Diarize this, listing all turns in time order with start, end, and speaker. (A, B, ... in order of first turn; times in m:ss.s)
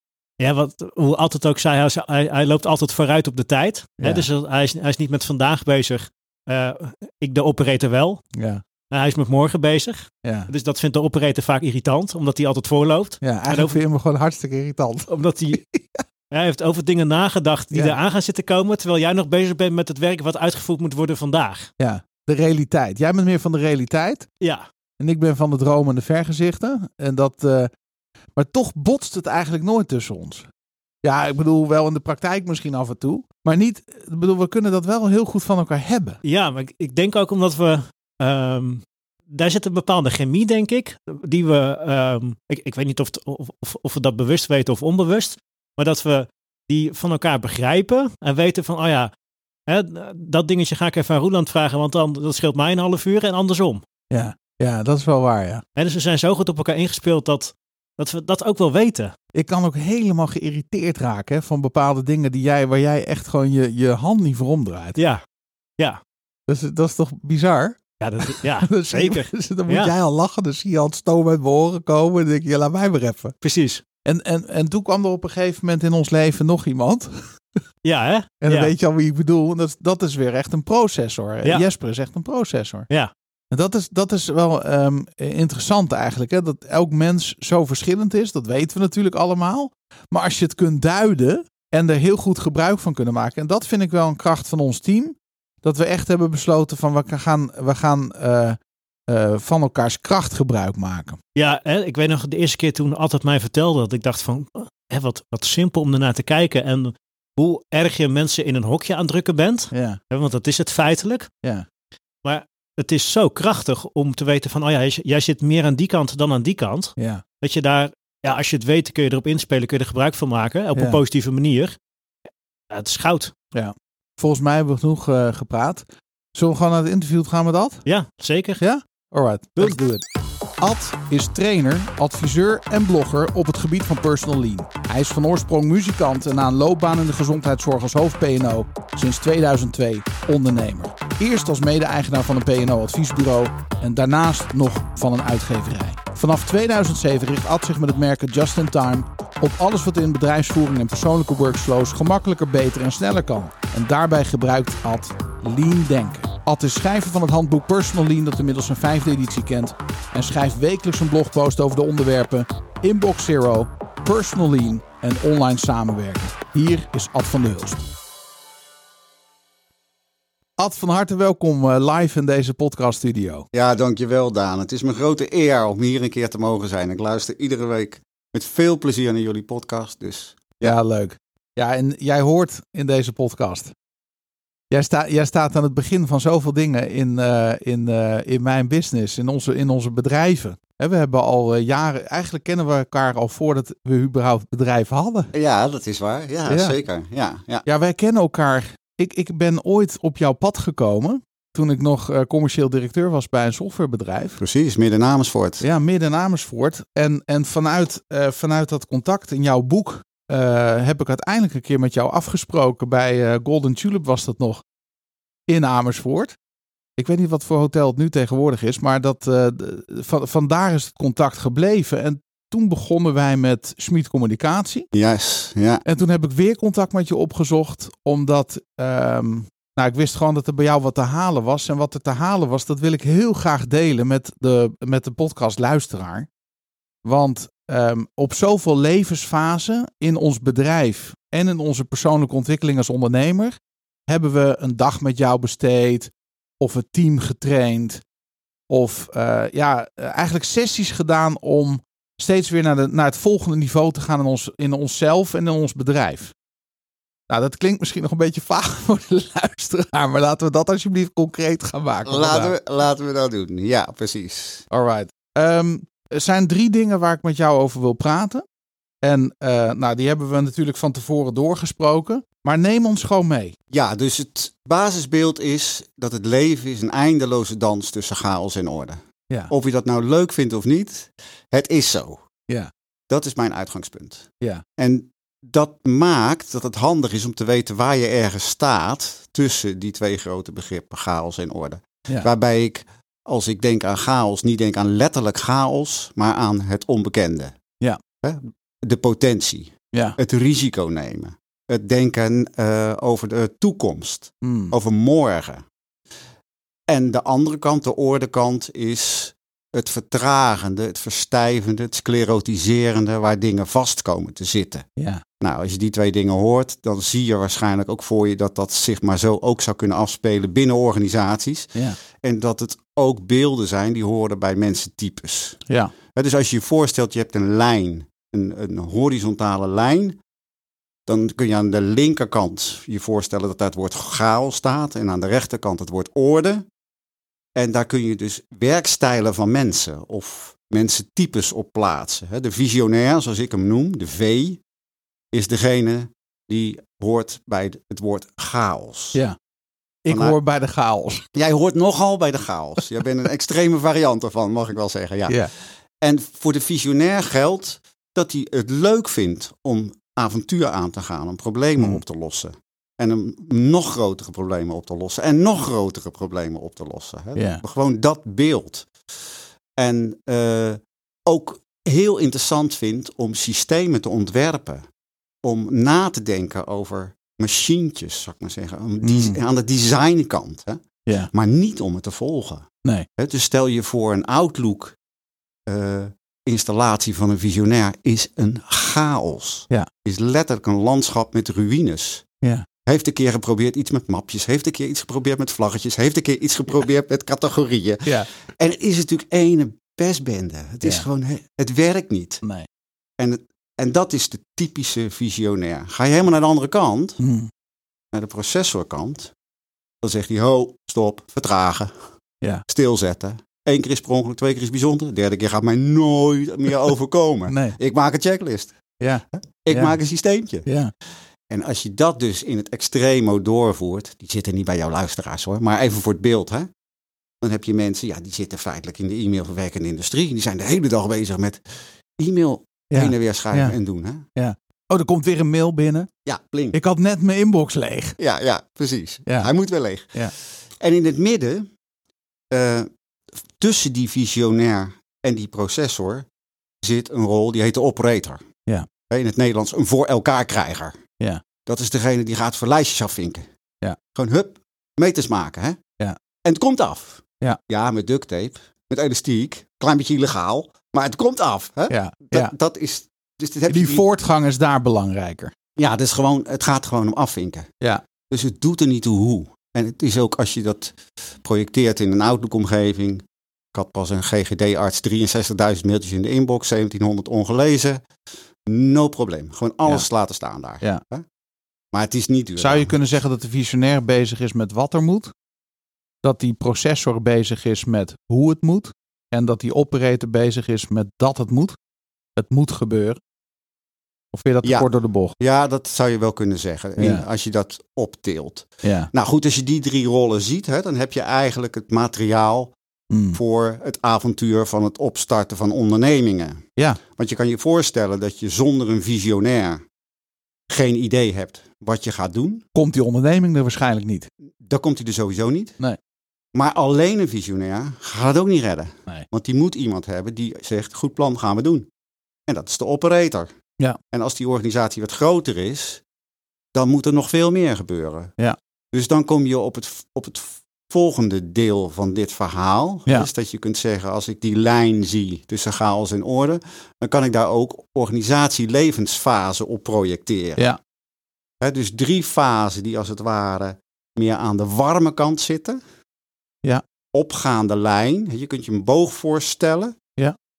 0:00.4-0:08.2 A
0:04.0-0:04.3 B
0:08.3-0:08.6 B
0:08.9-0:13.8 A
0:10.2-0:10.5 B
0:13.2-0:16.0 B
0:15.1-0:15.6 A
0:16.3-0:21.7 A
0:17.7-0:18.0 B
0:21.8-0:24.3 B
0:24.4-0:24.6 A
0:25.0-0:27.7 B
0:28.4-0:30.5 B
0:31.0-0:36.2 B
0:36.2-0:49.1 A
0:49.7-0:53.8 A
0:54.1-0:55.6 B
0:55.8-0:59.1 A
0:59.3-1:05.0 B
1:05.0-1:05.2 A
1:06.5-1:13.3 B
1:08.0-1:09.9 A
1:13.4-1:13.8 A
1:14.0-1:17.4 B
1:17.8-1:18.7 A
1:18.4-1:22.9 B
1:23.5-1:41.2 B
1:41.4-1:51.3 A
1:49.7-1:50.0 B
1:52.2-2:01.8 A
1:57.0-1:57.2 B
2:02.7-2:03.3 A
2:03.5-2:07.8 B
2:07.8-2:08.6 A
2:08.6-2:10.0 B
2:09.6-2:09.8 A
2:10.6-2:47.8 B
2:50.6-2:53.5 B
2:53.5-3:00.7 C
3:00.6-3:03.7 B
3:04.7-3:15.3 B
3:15.3-3:17.6 C
3:16.5-3:16.8 B
3:17.6-3:24.4 B
3:24.4-3:25.6 C
3:25.6-3:34.6 B
3:35.5-3:36.4 B
3:37.0-3:44.9 B
3:44.9-3:45.8 C
3:45.8-3:56.3 B
3:57.0-4:08.0 B
4:08.7-4:16.3 B
4:17.3-4:22.5 B
4:22.0-4:24.6 C
4:24.7-4:28.4 B
4:29.0-4:33.5 B
4:33.7-4:42.2 C
4:43.1-4:57.6 C
4:58.2-5:05.6 C
5:04.4-5:04.7 B
5:06.9-5:14.8 C
5:15.0-5:15.2 B
5:15.4-5:25.6 C
5:25.7-5:25.9 B
5:26.1-5:30.2 C
5:31.0-5:36.6 C
5:37.5-5:44.6 C
5:45.3-5:49.2 C
5:50.0-5:51.2 B
5:50.1-5:50.4 C
5:51.3-5:55.4 C
5:56.0-6:08.9 C
6:07.4-6:07.6 B
6:09.8-6:14.8 C
6:15.4-6:25.0 C
6:19.0-6:19.4 B
6:25.6-6:32.2 C
6:32.8-6:42.4 C
6:43.2-6:47.2 C
6:47.2-6:47.5 B
6:48.1-6:49.3 C
6:50.0-6:51.9 C
6:52.7-6:58.8 C
6:57.5-6:57.8 B
6:59.0-7:00.0 B
6:59.6-7:00.6 C
7:00.6-7:00.9 B
7:01.5-7:06.7 C
7:07.4-7:11.6 C
7:12.2-7:14.2 C
7:12.9-7:13.7 B
7:14.3-7:16.1 B
7:16.2-7:16.8 C
7:16.7-7:18.2 B
7:18.2-7:20.2 C
7:19.2-7:19.5 B
7:20.8-7:21.7 C
7:22.5-7:22.9 C
7:23.6-7:26.3 C
7:26.8-7:28.4 C
7:29.1-7:31.0 C
7:31.6-7:33.5 C
7:34.1-7:35.8 C
7:36.4-7:44.0 C
7:41.9-7:42.5 B
7:43.7-7:45.5 B
7:45.8-7:47.7 C
7:48.3-7:58.0 C
7:58.6-8:01.2 C
8:01.9-8:02.9 C
8:02.6-8:05.3 B
8:06.2-8:11.8 B
8:12.4-8:13.2 B
8:14.3-8:15.3 B
8:14.6-8:14.9 C
8:15.4-8:22.7 C
8:17.0-8:17.2 B
8:18.8-8:19.1 B
8:23.1-8:23.4 B
8:23.3-8:29.8 C
8:30.7-8:32.6 C
8:32.7-8:34.3 B
8:34.6-8:35.8 C
8:36.5-8:41.9 C
8:42.5-8:43.5 C
8:44.1-8:46.0 C
8:46.7-8:48.3 C
8:48.9-9:00.7 C
9:01.6-9:05.8 C
9:07.1-9:10.0 C